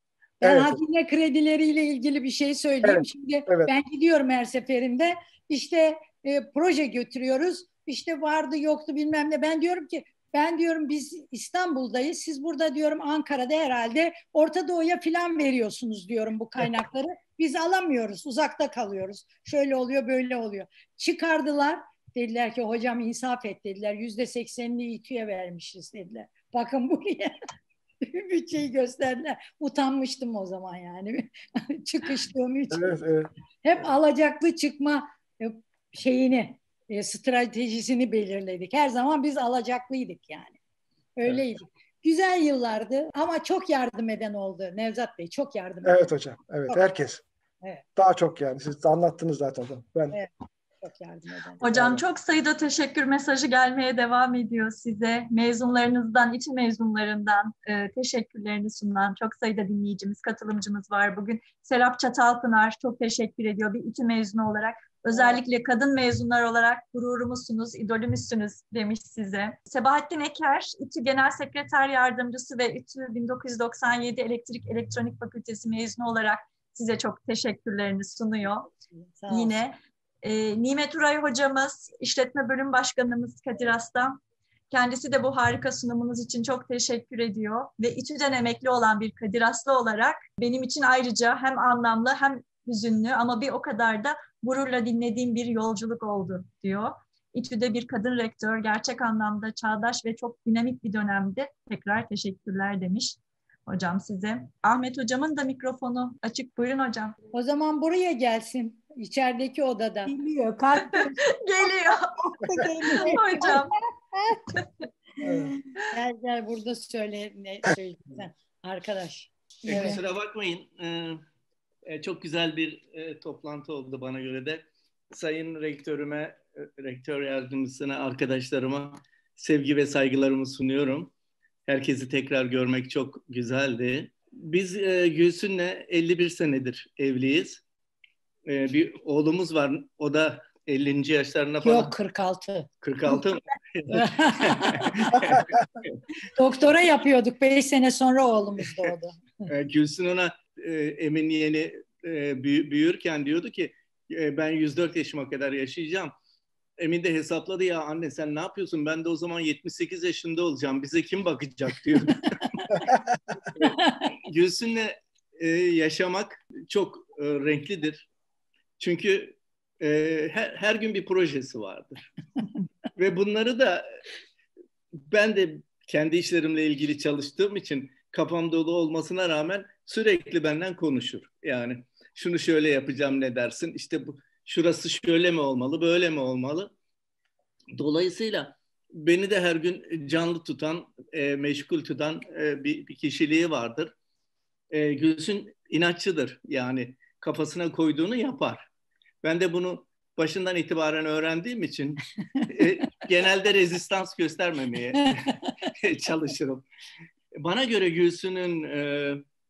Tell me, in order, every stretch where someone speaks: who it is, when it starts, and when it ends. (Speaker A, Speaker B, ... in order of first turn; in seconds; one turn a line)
Speaker A: 0.4-0.8
Speaker B: 0.4-27.3
Speaker A: 2.8-3.7
Speaker B: 28.0-33.0
Speaker A: 32.7-33.3
Speaker B: 33.6-40.6
Speaker B: 41.2-46.1
Speaker A: 45.8-47.2
Speaker A: 48.0-50.2
Speaker B: 50.8-51.8
Speaker C: 51.6-78.7
Speaker A: 51.7-52.0
Speaker B: 65.1-65.4
Speaker B: 78.9-79.6
Speaker C: 79.3-84.2
Speaker C: 84.7-107.2
Speaker B: 107.3-110.1
Speaker D: 110.1-114.6
Speaker C: 110.9-113.7
Speaker D: 115.2-115.6
Speaker B: 115.9-120.0
Speaker E: 119.7-121.2
Speaker E: 121.9-131.1
Speaker E: 131.7-137.6
Speaker E: 138.5-141.9
Speaker B: 141.6-142.7
Speaker E: 142.8-145.5
Speaker B: 143.9-145.2
Speaker B: 146.3-149.2
Speaker E: 149.5-156.1
Speaker E: 156.8-162.8
Speaker E: 164.2-168.1
Speaker E: 168.8-172.0
Speaker E: 173.0-173.9
Speaker E: 175.1-186.7
Speaker E: 187.8-193.9
Speaker E: 194.7-198.7
Speaker E: 199.2-205.2
Speaker E: 205.8-206.7
Speaker E: 207.4-209.2